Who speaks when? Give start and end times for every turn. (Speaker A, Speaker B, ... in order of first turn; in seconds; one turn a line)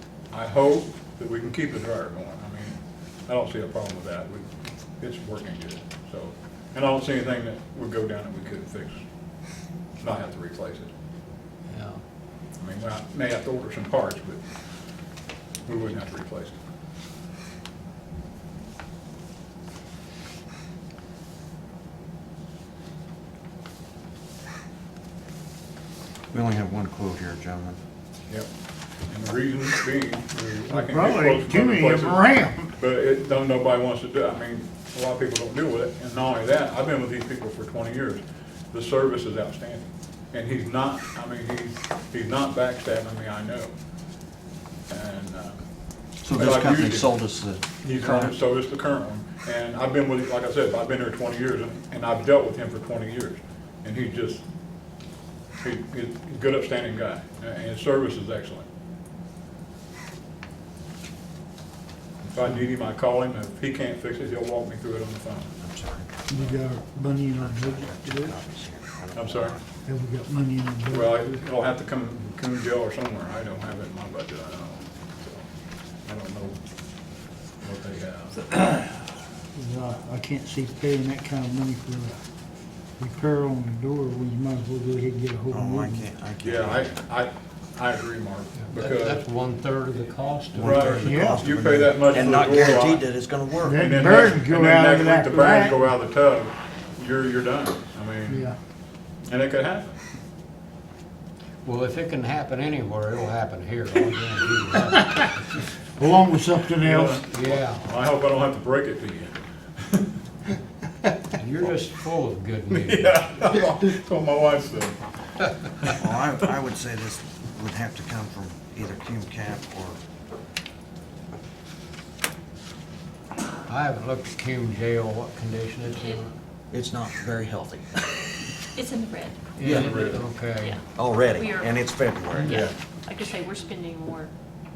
Speaker A: 0.3-9.0
Speaker A: 10.0-10.9
Speaker B: 11.7-12.0
Speaker A: 12.6-14.4
Speaker A: 15.7-16.6
Speaker C: 26.3-27.8
Speaker A: 29.1-43.7
Speaker D: 30.7-32.7
Speaker A: 44.9-45.6
Speaker C: 46.2-48.3
Speaker A: 46.3-47.1
Speaker A: 47.8-54.4
Speaker A: 55.6-58.7
Speaker A: 62.2-65.5
Speaker C: 65.6-66.3
Speaker D: 66.3-68.3
Speaker C: 67.4-69.6
Speaker A: 69.2-69.5
Speaker D: 69.8-71.4
Speaker A: 70.9-75.4
Speaker A: 76.0-76.6
Speaker A: 77.6-78.8
Speaker D: 79.5-82.2
Speaker D: 83.0-86.0
Speaker C: 85.5-86.9
Speaker A: 86.4-89.2
Speaker B: 88.6-91.7
Speaker C: 90.5-94.1
Speaker A: 90.6-93.0
Speaker D: 91.0-91.4
Speaker D: 93.6-95.8
Speaker A: 93.7-98.5
Speaker D: 98.3-98.5
Speaker A: 99.3-100.0
Speaker B: 101.6-105.7
Speaker D: 106.0-107.2
Speaker A: 106.8-110.1
Speaker B: 107.3-107.8
Speaker B: 111.3-113.2
Speaker A: 112.7-115.0
Speaker C: 116.0-120.0
Speaker B: 123.7-126.3
Speaker C: 126.7-128.1
Speaker E: 128.8-129.5
Speaker B: 129.6-130.8
Speaker C: 129.6-129.9
Speaker A: 129.6-130.2
Speaker C: 130.9-132.6
Speaker E: 131.3-131.7
Speaker E: 132.4-134.3
Speaker A: 132.5-132.7